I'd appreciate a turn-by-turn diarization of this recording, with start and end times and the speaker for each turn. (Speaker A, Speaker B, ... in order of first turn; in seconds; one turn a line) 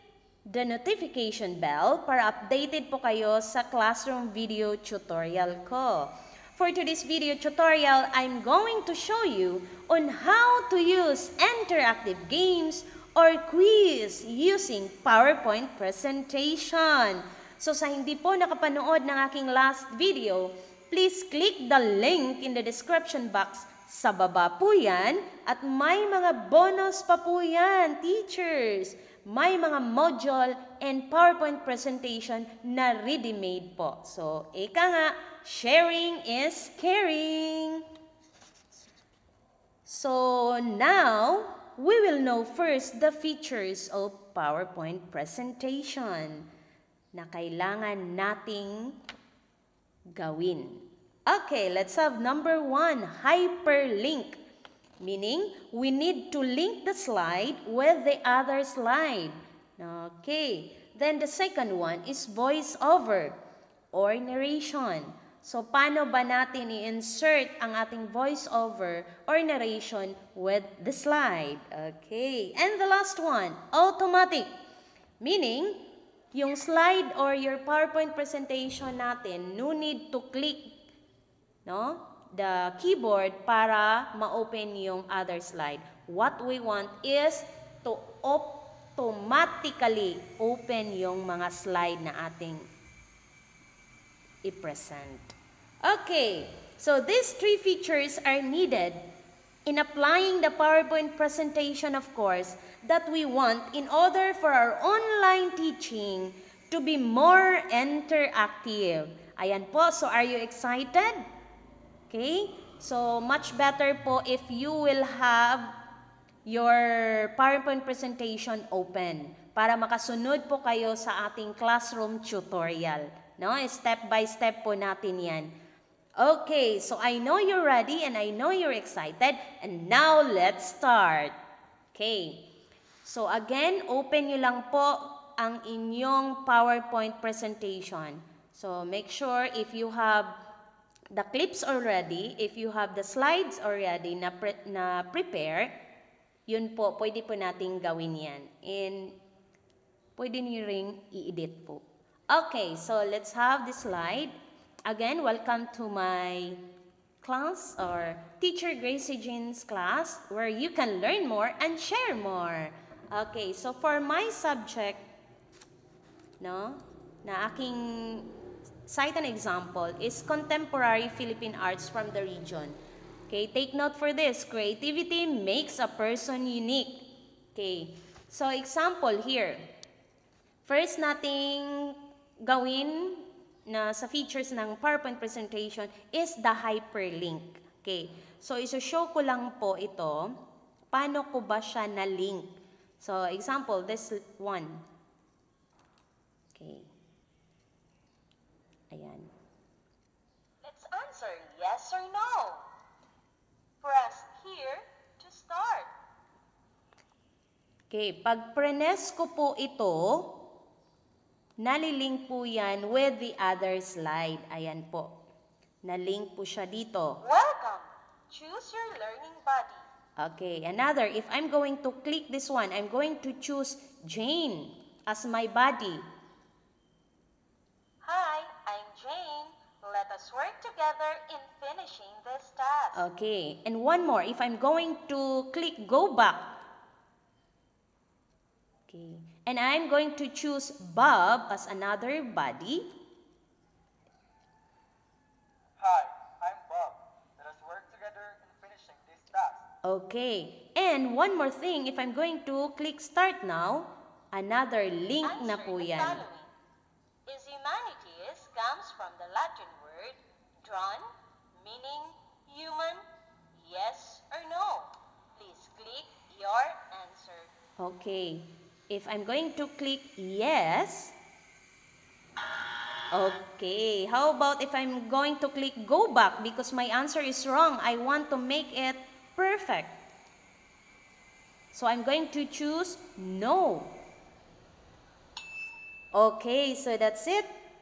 Speaker A: 0.5-37.9
Speaker A: 39.9-46.5
Speaker A: 47.1-49.0
Speaker A: 50.1-54.4
Speaker A: 55.0-63.4
Speaker A: 63.9-74.5
Speaker A: 75.2-75.8
Speaker A: 76.3-80.7
Speaker A: 81.7-92.7
Speaker A: 94.5-99.0
Speaker A: 99.7-111.2
Speaker A: 112.1-115.7
Speaker A: 116.5-125.5
Speaker A: 126.2-131.4
Speaker A: 131.9-132.4
Speaker A: 133.0-140.3
Speaker A: 141.1-145.7
Speaker A: 146.5-149.2
Speaker A: 150.2-156.6
Speaker A: 157.2-165.1
Speaker A: 166.4-168.3
Speaker A: 168.9-172.8
Speaker A: 173.3-177.0
Speaker A: 177.6-179.6
Speaker A: 180.7-190.3
Speaker A: 190.9-194.8
Speaker A: 196.6-196.9
Speaker A: 198.9-199.3
Speaker B: 200.6-202.7
Speaker B: 203.8-205.9
Speaker A: 207.9-210.3
Speaker A: 211.6-215.1
Speaker A: 215.8-217.2
Speaker B: 217.2-219.8
Speaker A: 220.2-226.0
Speaker B: 228.0-233.1
Speaker A: 232.9-236.6
Speaker A: 238.9-242.9
Speaker C: 245.8-249.7
Speaker A: 249.8-256.2
Speaker B: 255.2-256.5
Speaker B: 257.3-267.5
Speaker A: 267.8-271.1
Speaker A: 273.1-280.0
Speaker A: 281.7-284.0
Speaker A: 286.1-287.5